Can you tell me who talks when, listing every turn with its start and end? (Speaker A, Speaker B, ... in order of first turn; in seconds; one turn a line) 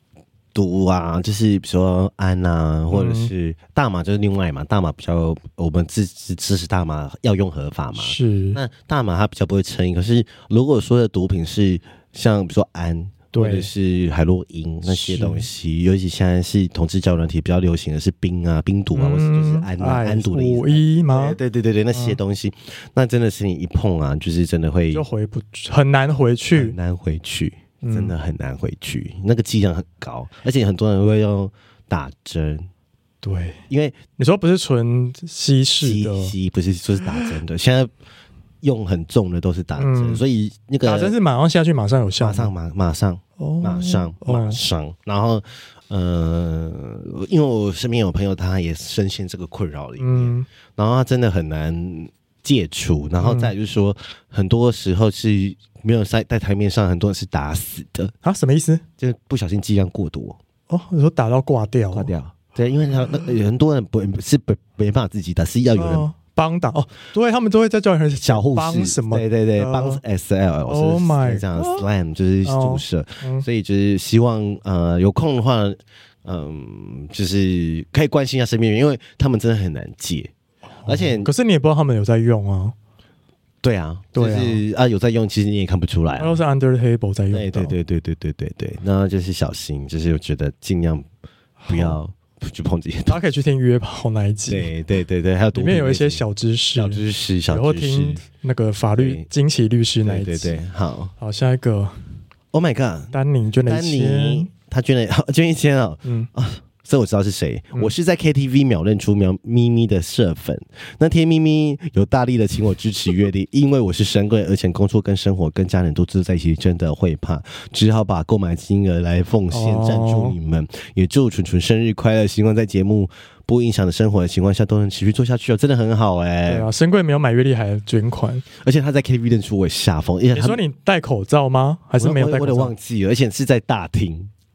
Speaker A: 0.5-25.0
Speaker B: 2.9-3.3
Speaker B: 8.0-8.6
Speaker B: 13.3-13.7
Speaker B: 14.9-15.5
Speaker B: 18.9-21.4
Speaker B: 21.9-22.2
Speaker B: 24.9-26.8
Speaker A: 26.5-32.7
Speaker B: 27.8-28.1
Speaker B: 33.2-33.6
Speaker A: 33.7-34.0
Speaker B: 34.2-36.3
Speaker A: 35.8-37.9
Speaker A: 38.6-41.1
Speaker B: 39.8-40.2
Speaker B: 40.8-42.5
Speaker A: 42.2-58.1
Speaker B: 43.4-44.6
Speaker B: 50.0-50.5
Speaker B: 53.2-53.5
Speaker B: 58.2-58.8
Speaker A: 59.0-60.4
Speaker B: 60.7-62.1
Speaker A: 61.9-66.0
Speaker B: 65.8-70.0
Speaker A: 68.2-80.3
Speaker B: 70.7-71.8
Speaker B: 72.4-73.4
Speaker B: 80.8-82.7
Speaker A: 80.8-81.3
Speaker A: 83.6-86.4
Speaker B: 84.2-84.6
Speaker B: 86.2-87.7
Speaker A: 87.3-91.0
Speaker B: 91.6-92.0
Speaker A: 91.7-93.2
Speaker B: 93.1-94.7
Speaker A: 94.5-96.2
Speaker B: 95.5-100.6
Speaker A: 96.7-98.2
Speaker A: 99.0-99.2
Speaker A: 100.0-101.1
Speaker B: 101.2-101.9
Speaker A: 102.5-103.1
Speaker B: 103.1-104.5
Speaker A: 103.7-126.7
Speaker B: 119.5-120.3
Speaker B: 126.5-128.4
Speaker A: 128.6-130.6
Speaker B: 130.3-132.7
Speaker A: 132.0-134.3